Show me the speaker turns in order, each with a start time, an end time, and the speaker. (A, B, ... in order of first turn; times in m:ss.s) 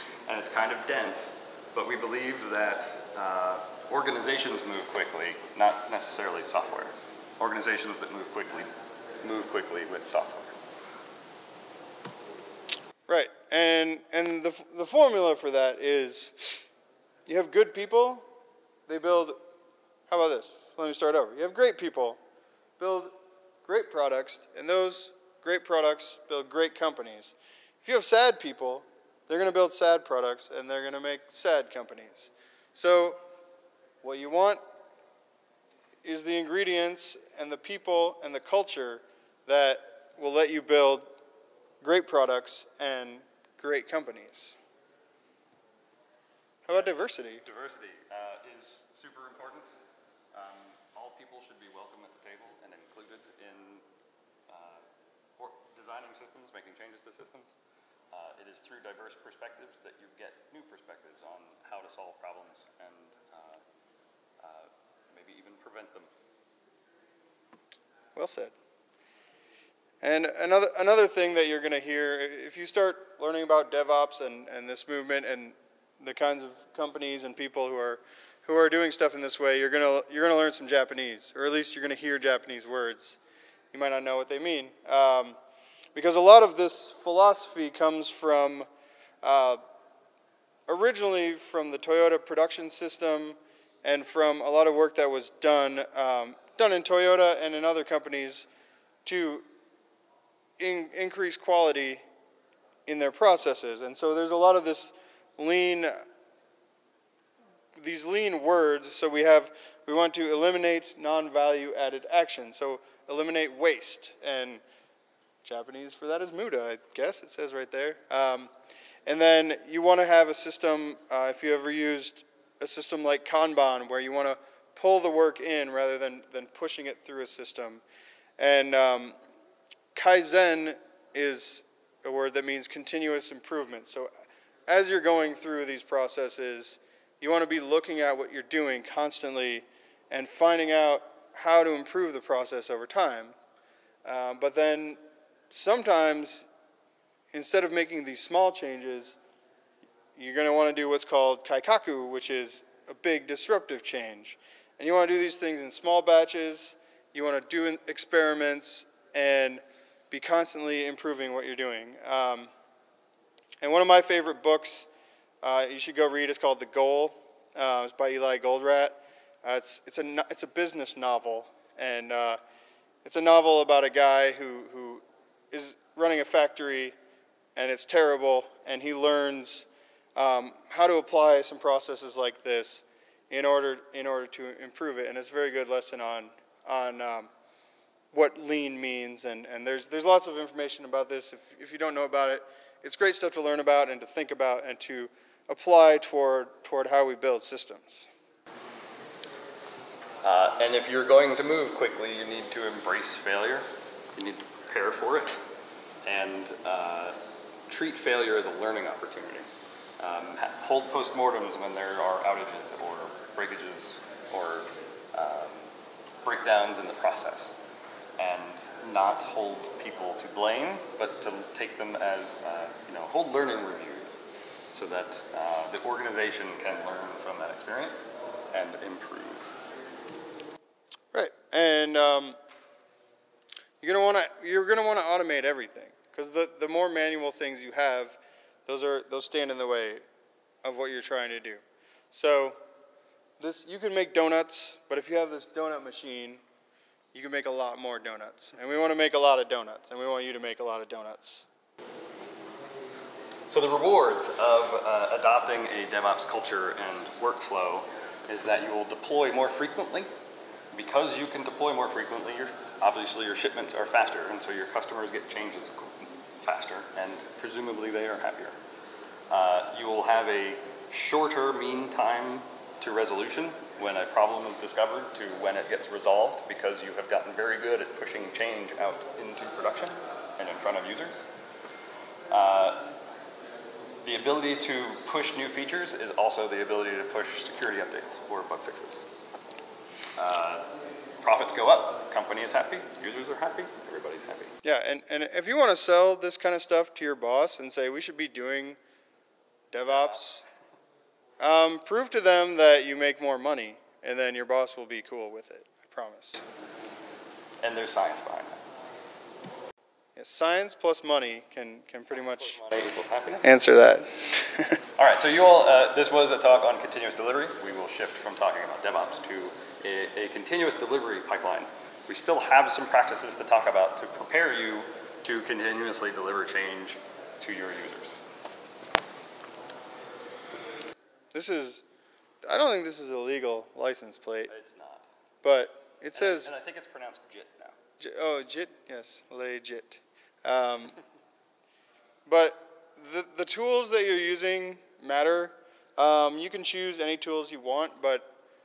0:00.3-0:08.7 A
0:09.2-0:10.6 A
0:13.1-0:16.6 B
0:17.3-0:18.3 B
0:18.9-0:19.4 B
0:20.1-0:22.2 B
0:22.8-0:33.2 B
0:34.0-0:34.6 B
0:36.0-0:41.1 B
0:41.8-0:44.6 B
0:46.7-0:47.4 B
0:46.7-0:49.7 A
0:50.3-0:53.8 A
0:54.5-0:54.8 A
0:55.4-0:57.5 A
0:58.1-1:03.6 A
1:04.4-1:06.1 A
1:08.2-1:08.5 B
1:10.0-1:23.2 B
1:23.7-1:25.4 B
1:26.0-1:28.7 B
1:29.2-1:29.6 B
1:30.7-1:38.5 B
1:39.0-1:39.5 B
1:40.6-1:42.0 B
1:42.9-1:46.0 B
1:47.8-1:54.6 B
1:55.4-1:58.5 B
1:59.1-2:07.8 B
2:08.4-2:09.2 B
2:09.9-2:14.1 B
2:14.7-2:23.4 B
2:24.0-2:25.0 B
2:25.5-2:26.5 B
2:27.3-2:29.2 B
2:30.2-2:42.5 B
2:43.6-2:44.9 B
2:45.4-2:52.4 B
2:53.0-2:57.0 B
2:57.6-3:07.3 B
3:08.1-3:18.1 B
3:20.2-3:25.3 A
3:26.0-3:27.2 A
3:27.7-3:29.4 A
3:30.0-3:35.7 A
3:36.2-3:37.6 A
3:38.2-3:44.2 A
3:44.7-3:49.5 A
3:51.1-3:52.4 B
3:53.8-4:00.0 B
4:00.6-4:01.6 B
4:02.1-4:02.6 B
4:03.4-4:06.4 B
4:07.1-4:11.5 B
4:13.5-4:20.1 A
4:20.7-4:28.6 A
4:29.3-4:41.1 A
4:42.3-4:42.9 A
4:44.0-4:49.0 A
4:50.2-4:50.7 A
4:51.2-4:54.5 A
4:54.6-4:58.8 B
4:59.7-5:00.4 B
4:59.9-5:00.2 A
5:01.4-5:06.4 B
5:07.6-5:08.6 A
5:10.2-5:12.6 B
5:12.1-5:13.5 A
5:13.4-5:14.8 B
5:15.0-5:28.2 A
5:31.3-5:31.8 B
5:32.4-5:34.5 B
5:34.5-5:35.1 A
5:35.4-5:36.5 B
5:36.2-5:37.8 A
5:38.0-5:41.0 B
5:42.3-5:48.3 B